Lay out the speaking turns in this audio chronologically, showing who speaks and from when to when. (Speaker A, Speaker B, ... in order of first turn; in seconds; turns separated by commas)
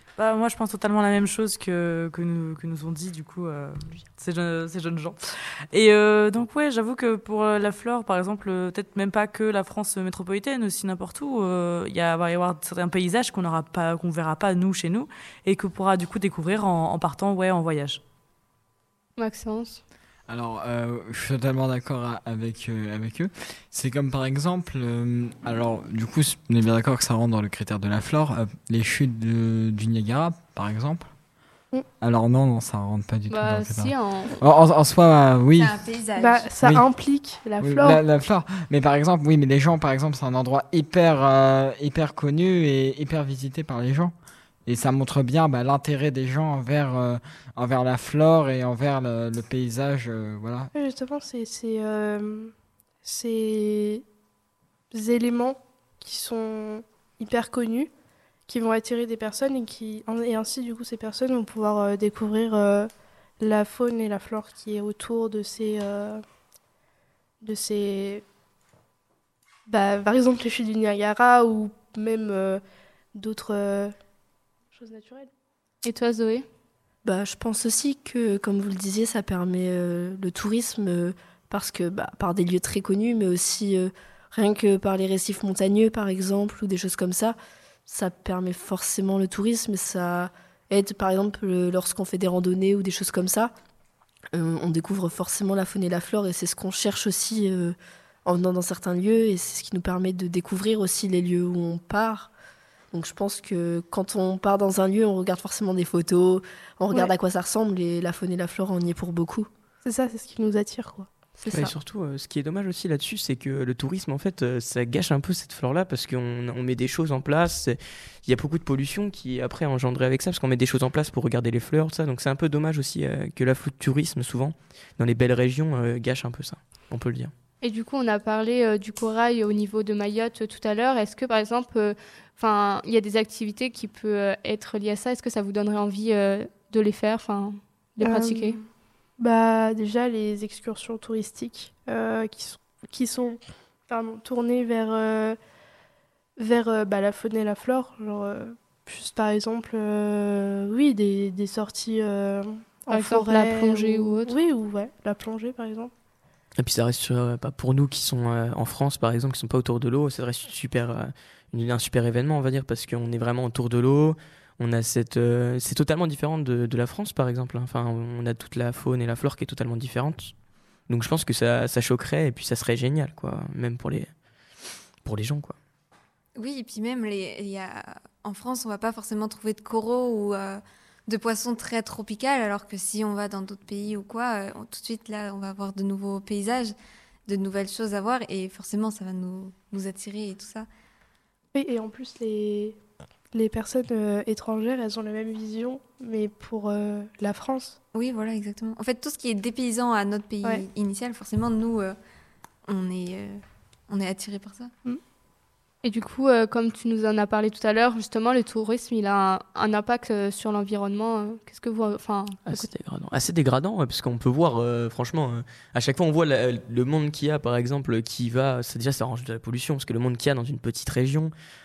Speaker A: 0.2-18.0, Speaker B: 19.2-19.8, Speaker C: 20.3-31.1, Speaker C: 32.0-35.8, Speaker B: 33.3-34.4, Speaker D: 35.6-36.5, Speaker E: 36.2-38.0, Speaker C: 37.6-44.1, Speaker C: 44.7-50.7, Speaker E: 50.7-54.0, Speaker E: 54.9-57.9, Speaker E: 58.5-66.2, Speaker E: 67.4-68.2, Speaker E: 69.7-72.6, Speaker E: 73.1-74.0, Speaker E: 74.7-75.3, Speaker B: 75.8-76.5, Speaker F: 77.0-93.5, Speaker F: 94.3-102.3, Speaker F: 102.9-109.5, Speaker E: 109.8-111.1, Speaker F: 111.4-111.8, Speaker G: 111.5-127.3, Speaker B: 127.6-138.6, Speaker E: 138.0-138.5, Speaker E: 139.2-145.4, Speaker E: 146.4-155.9, Speaker B: 152.9-154.3, Speaker G: 156.6-170.3, Speaker G: 170.9-174.1, Speaker G: 175.0-175.6, Speaker D: 176.4-186.8, Speaker D: 187.3-190.7, Speaker E: 191.5-192.8, Speaker E: 193.3-197.8, Speaker D: 197.9-202.0, Speaker D: 202.7-204.7, Speaker B: 205.8-212.7, Speaker G: 212.5-221.3